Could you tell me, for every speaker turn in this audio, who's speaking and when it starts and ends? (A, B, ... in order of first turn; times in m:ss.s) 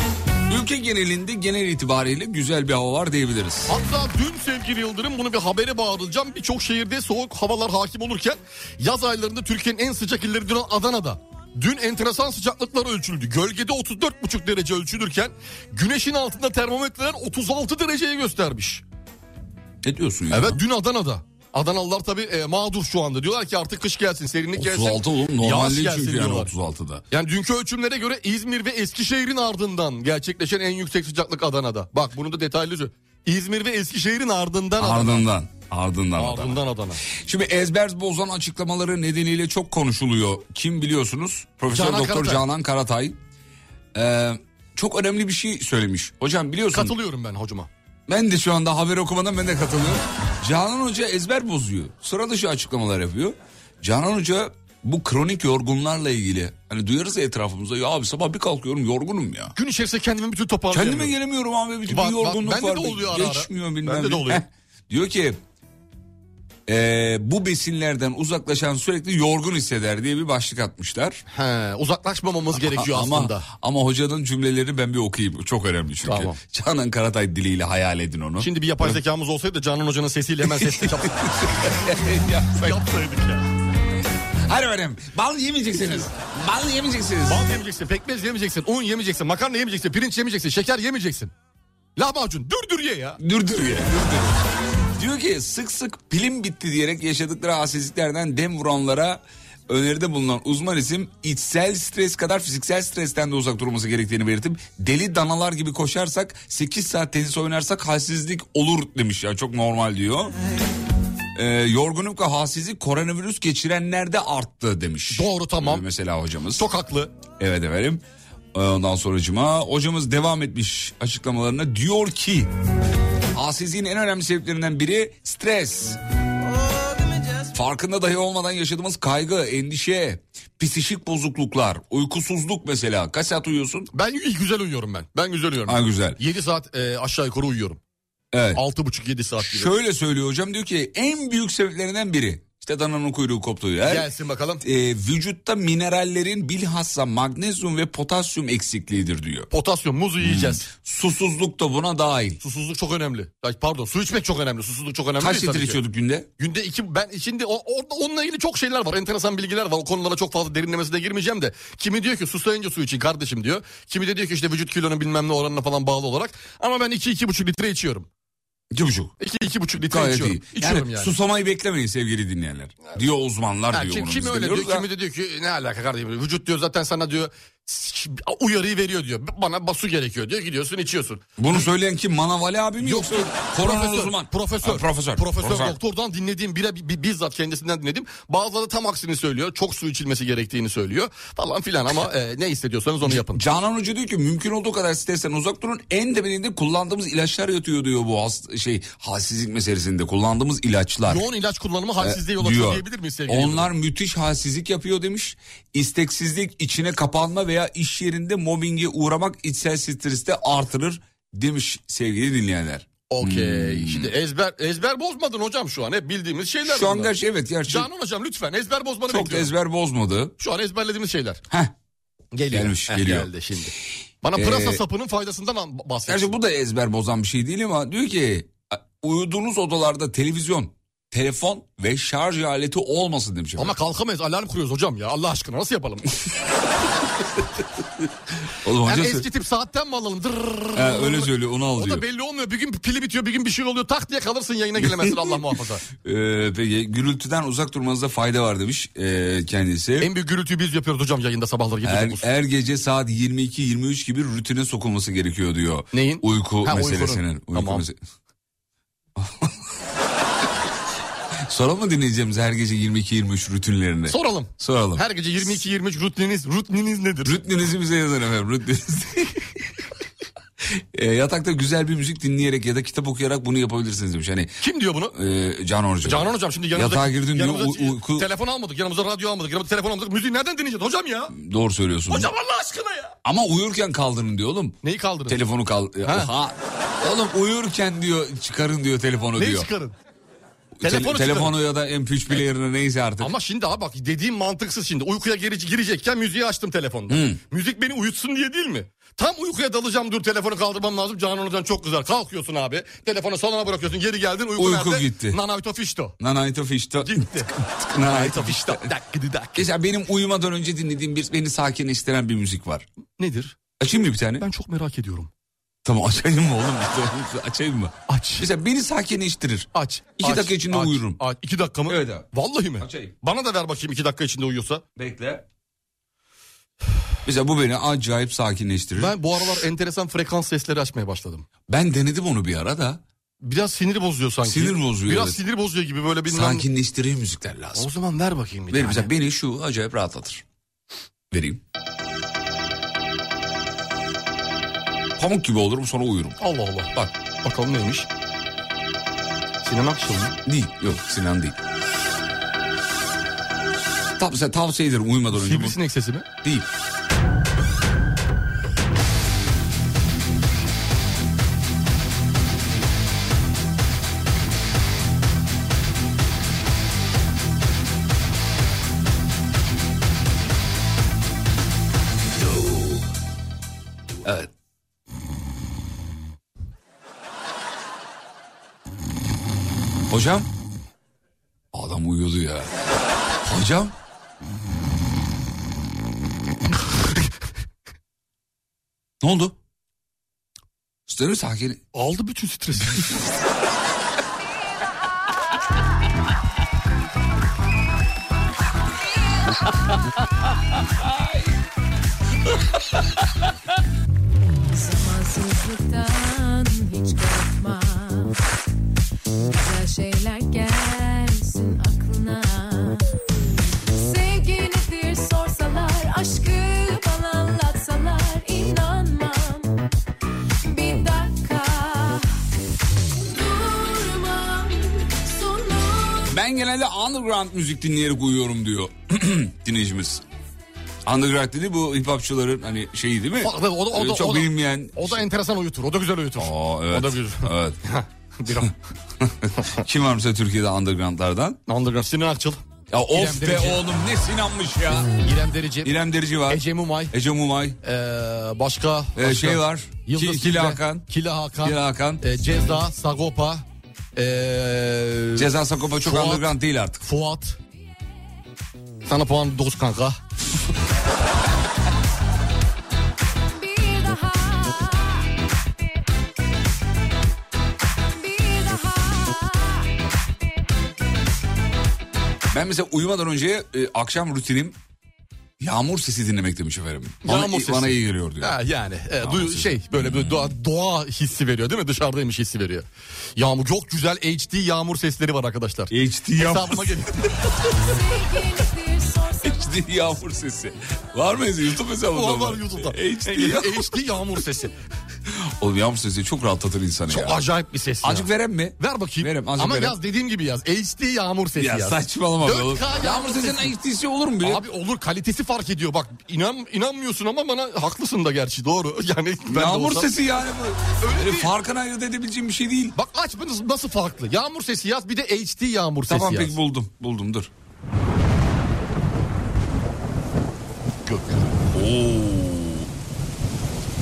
0:00.5-0:03.8 A
0:03.7-0:18.8 B
0:19.8-0:20.6 A
0:20.3-0:26.5 B
0:24.6-0:27.0 A
0:27.1-0:35.2 B
0:34.8-0:43.2 A
0:36.2-0:37.0 B
0:41.7-0:42.4 B
0:43.9-0:46.9 A
0:46.7-0:47.7 B
0:48.1-0:59.6 A
0:59.6-1:01.1 B
1:00.7-1:05.4 A
1:01.9-1:04.4 B
1:06.7-1:11.2 A
1:11.3-1:13.4 B
1:12.6-1:18.9 A
1:16.0-1:16.4 B
1:18.4-1:21.5 B
1:20.6-1:20.9 A
1:21.5-1:22.8 A
1:22.6-1:23.4 B
1:24.4-1:27.5 A
1:27.2-1:31.3 B
1:32.0-1:33.2 B
1:33.2-1:34.3 A
1:35.0-1:50.3 A
1:51.3-1:56.6 A
1:55.1-1:55.8 B
1:56.5-1:57.1 B
1:57.4-1:58.0 A
1:58.5-2:02.5 A
2:03.3-2:06.0 A
2:07.5-2:13.9 A
2:13.9-2:17.8 B
2:15.6-2:16.2 A
2:18.3-2:18.6 A
2:18.5-2:19.7 B
2:19.4-2:24.1 A
2:23.8-2:24.6 B
2:24.6-2:29.5 A
2:29.5-2:30.7 B
2:30.2-2:32.4 A
2:32.4-2:35.8 B
2:35.2-2:36.3 A
2:36.4-2:48.1 B
2:48.7-2:49.1 A
2:49.2-2:51.1 B
2:49.8-2:54.9 A
2:53.7-3:01.6 B
3:01.4-3:05.8 A
3:02.8-3:13.4 B
3:13.0-3:21.2 A
3:21.1-3:23.7 B
3:22.0-3:34.1 A
3:33.1-3:37.1 B
3:36.6-3:37.9 A
3:37.7-3:39.5 B
3:39.1-3:40.3 A
3:40.4-3:41.4 B
3:42.3-3:46.3 B
3:42.5-3:43.3 A
3:44.3-3:44.8 A
3:46.1-3:53.8 A
3:53.6-3:56.2 B
3:58.6-3:59.2 A
3:58.8-4:05.8 B
4:00.7-4:02.0 A
4:04.8-4:05.3 A
4:06.0-4:10.1 A
4:10.0-4:12.3 B
4:11.8-4:18.0 A
4:15.9-4:17.8 B
4:19.2-4:19.5 A
4:21.5-4:25.0 A
4:24.1-4:27.4 B
4:27.2-4:29.5 A
4:30.8-4:34.6 A
4:34.6-4:35.1 B
4:35.1-4:38.3 A
4:36.0-4:41.3 B
4:41.3-4:42.3 A
4:42.1-4:43.1 B
4:43.2-4:49.7 A
4:44.8-4:45.4 B
4:46.0-4:46.3 B
4:49.4-4:50.0 B
4:50.8-4:53.3 A
4:50.8-4:51.5 B
4:53.2-5:06.2 B
4:57.1-4:57.4 A
5:04.6-5:05.4 A
5:06.2-5:08.9 A
5:07.0-5:09.7 B
5:09.5-5:12.8 A
5:13.2-5:13.6 B
5:13.8-5:14.4 A
5:14.4-5:15.3 B
5:15.8-5:21.2 A
5:18.1-5:18.5 B
5:19.7-5:24.8 B
5:21.9-5:22.3 A
5:22.8-5:23.1 A
5:25.0-5:25.4 A
5:27.2-5:29.6 A
5:29.0-5:31.4 B
5:31.7-5:33.0 A
5:33.4-5:36.6 B
5:34.4-5:35.4 A
5:36.3-5:37.9 A
5:37.7-5:39.1 B
5:38.7-5:40.4 A
5:41.3-5:41.6 A
5:45.2-5:46.4 A
5:46.4-5:48.1 B
5:49.6-5:50.4 B
5:50.4-5:51.6 A
5:54.2-5:55.8 A
5:55.3-5:56.3 B
6:12.4-6:13.0 A
6:14.2-6:14.5 A
6:20.1-6:20.5 A
6:21.7-6:22.7 A
6:23.4-6:23.9 A
6:29.2-6:29.6 A
6:31.1-6:31.8 A
6:31.9-6:33.1 B
6:44.7-6:48.3 C
6:49.5-6:53.0 C
6:54.0-6:59.7 C
7:00.6-7:02.2 C
7:03.3-7:06.2 C
7:06.2-7:10.2 A
7:11.0-7:15.2 A
7:13.4-7:18.7 B
7:16.4-7:17.8 A
7:19.2-7:21.6 A
7:21.7-7:22.6 B
7:22.9-7:25.2 A
7:23.1-7:23.8 B
7:25.2-7:25.9 B
7:25.8-7:27.8 A
7:26.5-7:27.1 B
7:27.8-7:33.6 B
7:29.2-7:31.1 A
7:31.6-7:32.2 A
7:34.2-7:35.5 B
7:35.3-7:37.0 A
7:36.0-7:36.4 B
7:37.0-7:37.6 B
7:39.0-7:40.2 B
7:43.5-7:45.2 C
7:48.2-7:49.8 C
7:52.5-7:54.8 A
7:55.6-7:58.6 A
7:57.2-8:07.3 B
7:59.2-8:00.3 A
8:05.9-8:07.3 A
8:08.0-8:09.6 C
8:09.4-8:13.9 A
8:12.1-8:14.7 B
8:15.3-8:17.4 A
8:17.1-8:18.3 B
8:18.0-8:20.0 A
8:18.8-8:23.7 B
8:21.6-8:24.6 A
8:24.4-8:30.1 B
8:29.5-8:33.0 A
8:31.0-8:31.5 B
8:33.0-8:36.5 B
8:36.1-8:37.5 A
8:41.0-8:41.5 B
8:41.7-8:42.9 A